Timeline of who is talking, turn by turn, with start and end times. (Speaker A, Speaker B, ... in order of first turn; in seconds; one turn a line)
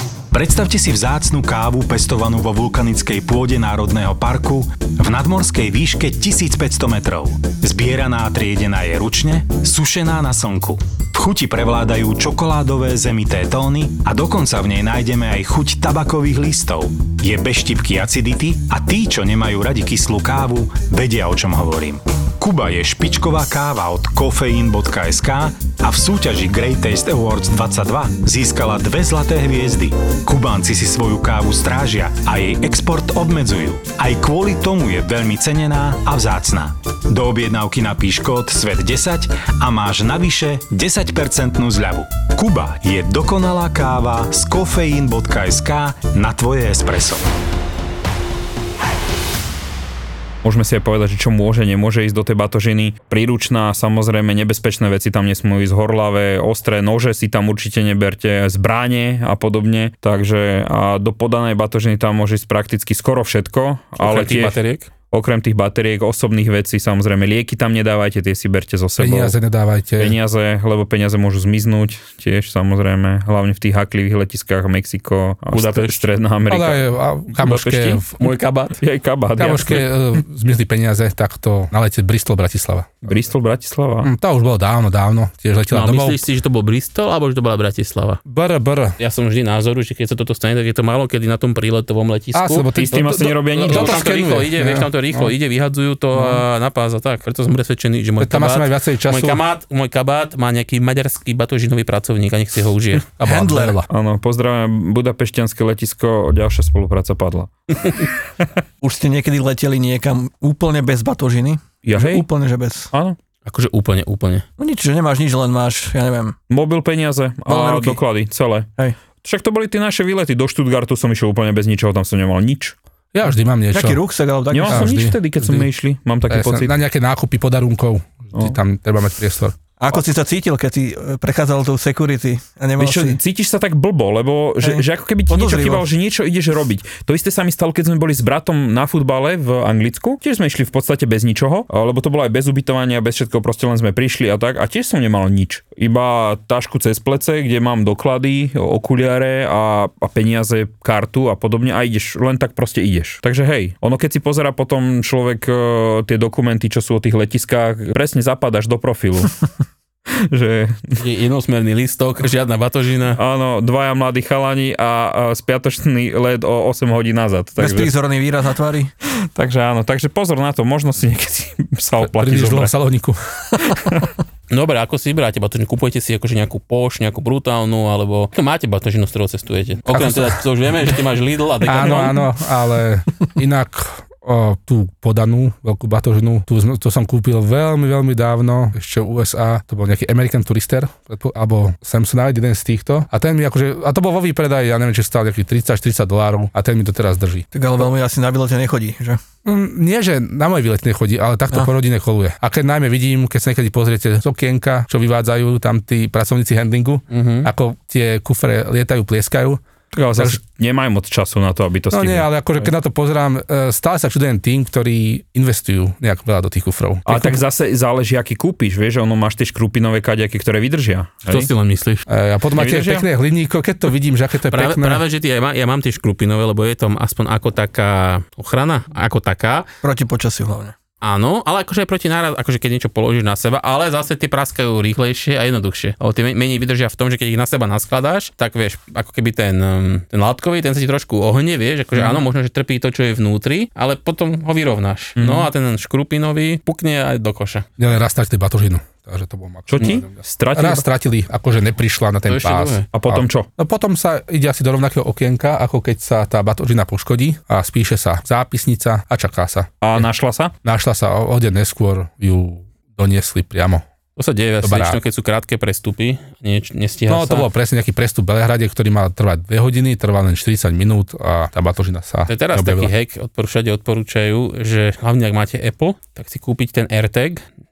Speaker A: 0.3-47.3
Speaker B: 50.4-64.6
Speaker C: 64.0-64.9
Speaker B: 65.1-69.4
Speaker D: 69.0-70.2
Speaker B: 70.0-76.8
Speaker C: 75.5-76.0
Speaker D: 76.5-78.3
Speaker C: 77.4-78.8
Speaker B: 78.8-79.9
Speaker D: 79.4-83.2
Speaker B: 83.0-84.1
Speaker D: 84.0-86.2
Speaker C: 85.7-88.2
Speaker D: 88.3-89.0
Speaker C: 89.0-103.1
Speaker D: 92.3-95.3
Speaker B: 92.8-94.2
Speaker D: 96.1-96.4
Speaker D: 98.2-99.4
Speaker D: 103.2-103.9
Speaker E: 103.2-103.8
Speaker B: 103.9-108.5
Speaker E: 108.8-112.9
Speaker B: 111.8-112.3
Speaker B: 112.9-113.2
Speaker C: 113.5-114.5
Speaker E: 114.6-116.4
Speaker B: 116.5-118.7
Speaker E: 117.5-118.0
Speaker B: 119.2-122.8
Speaker D: 123.1-124.0
Speaker E: 123.7-124.9
Speaker B: 124.5-126.7
Speaker D: 124.7-125.7
Speaker D: 126.3-129.6
Speaker E: 129.8-133.2
Speaker B: 132.8-159.4
Speaker E: 134.6-135.9
Speaker B: 160.2-161.0
Speaker C: 161.0-163.2
Speaker B: 163.2-167.9
Speaker E: 167.6-168.9
Speaker B: 169.3-172.7
Speaker D: 172.0-173.4
Speaker C: 174.5-182.2
Speaker D: 179.9-180.4
Speaker D: 181.6-197.5
Speaker E: 197.5-199.2
Speaker D: 199.4-209.6
Speaker C: 207.1-207.5
Speaker B: 209.9-212.3
Speaker D: 211.9-217.4
Speaker B: 217.1-221.5
Speaker C: 221.3-222.1
Speaker D: 222.1-225.0
Speaker B: 222.6-222.9
Speaker C: 224.5-229.7
Speaker E: 229.8-230.8
Speaker C: 231.0-247.7
Speaker B: 245.2-245.5
Speaker D: 247.8-260.1
Speaker B: 249.7-250.8
Speaker C: 252.3-252.9
Speaker B: 252.9-253.5
Speaker B: 259.8-260.5
Speaker D: 260.6-263.9
Speaker C: 264.2-267.5
Speaker D: 264.6-265.0
Speaker D: 267.1-272.9
Speaker C: 272.3-277.4